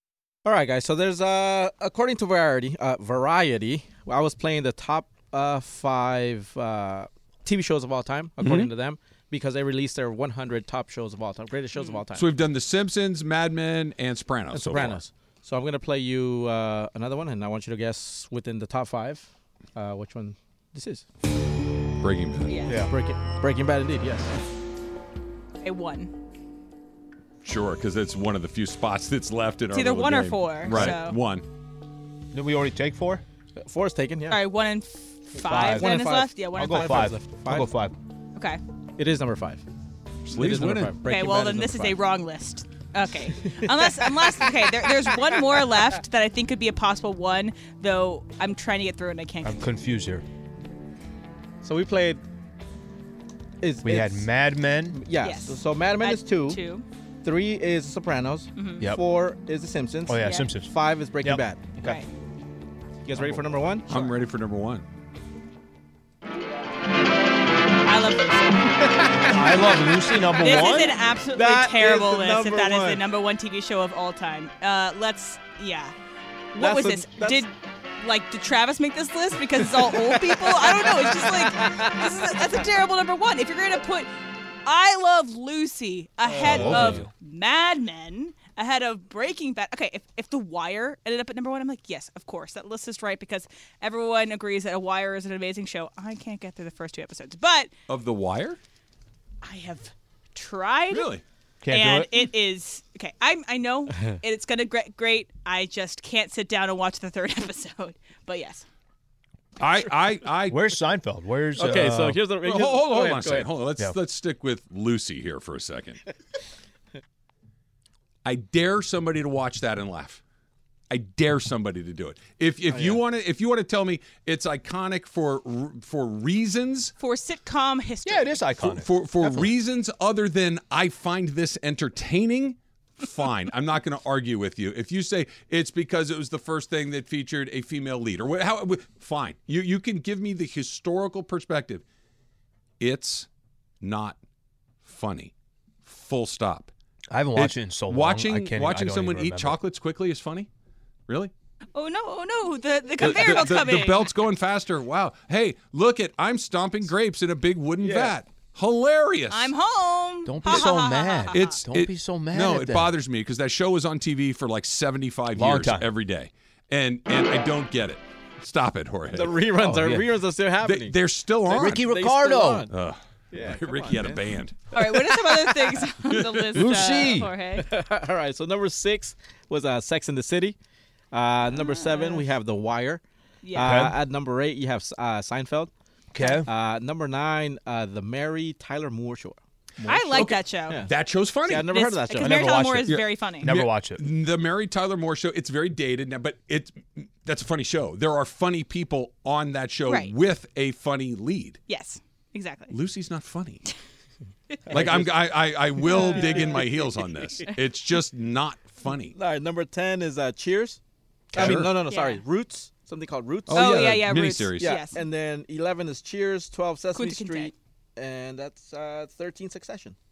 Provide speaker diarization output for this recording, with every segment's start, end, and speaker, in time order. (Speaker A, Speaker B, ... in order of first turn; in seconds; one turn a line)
Speaker A: 0.4-12.3
Speaker B: 11.8-12.0
Speaker C: 12.1-15.0
Speaker A: 14.5-21.1
Speaker C: 22.0-22.5
Speaker B: 22.5-22.8
Speaker A: 22.8-24.3
Speaker B: 25.6-26.1
Speaker C: 27.4-31.4
Speaker B: 29.7-31.2
Speaker D: 32.3-33.2
Speaker A: 33.6-34.4
Speaker B: 34.3-37.1
Speaker A: 35.4-37.7
Speaker D: 35.5-36.0
Speaker D: 36.6-37.9
Speaker A: 39.0-39.6
Speaker C: 40.3-41.0
Speaker A: 40.3-42.0
Speaker B: 41.0-49.7
Speaker A: 43.5-45.7
Speaker D: 49.4-50.2
Speaker A: 51.6-52.2
Speaker A: 53.6-54.3
Speaker D: 53.8-55.0
Speaker A: 54.9-56.6
Speaker B: 55.2-56.8
Speaker A: 57.2-61.8
Speaker B: 58.5-58.8
Speaker D: 60.1-62.0
Speaker B: 60.2-60.5
Speaker B: 61.8-62.1
Speaker A: 63.0-64.1
Speaker C: 63.9-64.8
Speaker B: 67.8-68.9
Speaker D: 69.2-71.0
Speaker B: 70.4-75.9
Speaker A: 70.5-73.0
Speaker B: 76.5-84.1
Speaker A: 76.6-77.4
Speaker A: 79.6-82.3
Speaker B: 84.6-97.7
Speaker A: 86.3-87.0
Speaker D: 86.4-87.1
Speaker C: 86.5-87.0
Speaker C: 97.9-98.6
Speaker B: 99.4-101.1
Speaker C: 100.9-101.2
Speaker D: 101.6-102.2
Speaker B: 101.7-108.6
Speaker C: 109.6-110.7
Speaker D: 110.5-112.2
Speaker A: 111.5-113.5
Speaker C: 112.4-116.0
Speaker C: 118.2-120.2
Speaker C: 120.9-126.9
Speaker A: 122.7-123.0
Speaker B: 127.0-128.4
Speaker D: 128.0-129.5
Speaker C: 128.6-141.8
Speaker C: 142.8-143.3
Speaker C: 143.8-144.2
Speaker C: 144.8-145.3
Speaker C: 145.8-146.7
Speaker D: 147.1-149.6
Speaker C: 147.3-150.5
Speaker B: 151.7-154.1
Speaker C: 153.0-159.5
Speaker A: 157.8-158.1
Speaker B: 159.3-161.6
Speaker D: 160.2-162.9
Speaker C: 161.3-169.6
Speaker D: 165.3-165.9
Speaker A: 169.1-171.0
Speaker D: 169.6-170.1
Speaker C: 170.6-171.8
Speaker A: 171.5-172.7
Speaker D: 171.5-172.7
Speaker C: 172.7-174.7
Speaker A: 173.3-174.2
Speaker B: 174.7-177.7
Speaker A: 175.1-175.3
Speaker C: 176.1-176.6
Speaker D: 176.5-177.3
Speaker A: 177.5-180.6
Speaker A: 181.1-183.0
Speaker B: 181.5-182.2
Speaker B: 183.4-183.8
Speaker A: 183.5-185.7
Speaker D: 183.6-184.0
Speaker D: 186.1-186.5
Speaker A: 186.3-190.9
Speaker B: 189.8-190.8
Speaker C: 190.1-191.7
Speaker A: 191.4-192.6
Speaker B: 191.7-193.5
Speaker D: 192.2-194.0
Speaker C: 192.8-201.6
Speaker B: 199.9-200.1
Speaker B: 201.7-202.7
Speaker C: 202.7-203.7
Speaker A: 204.7-207.4
Speaker C: 204.7-209.1
Speaker B: 206.0-206.4
Speaker A: 209.1-210.8
Speaker A: 211.3-219.9
Speaker C: 211.3-211.7
Speaker B: 211.8-212.2
Speaker C: 213.5-214.8
Speaker B: 213.5-215.0
Speaker B: 216.9-217.5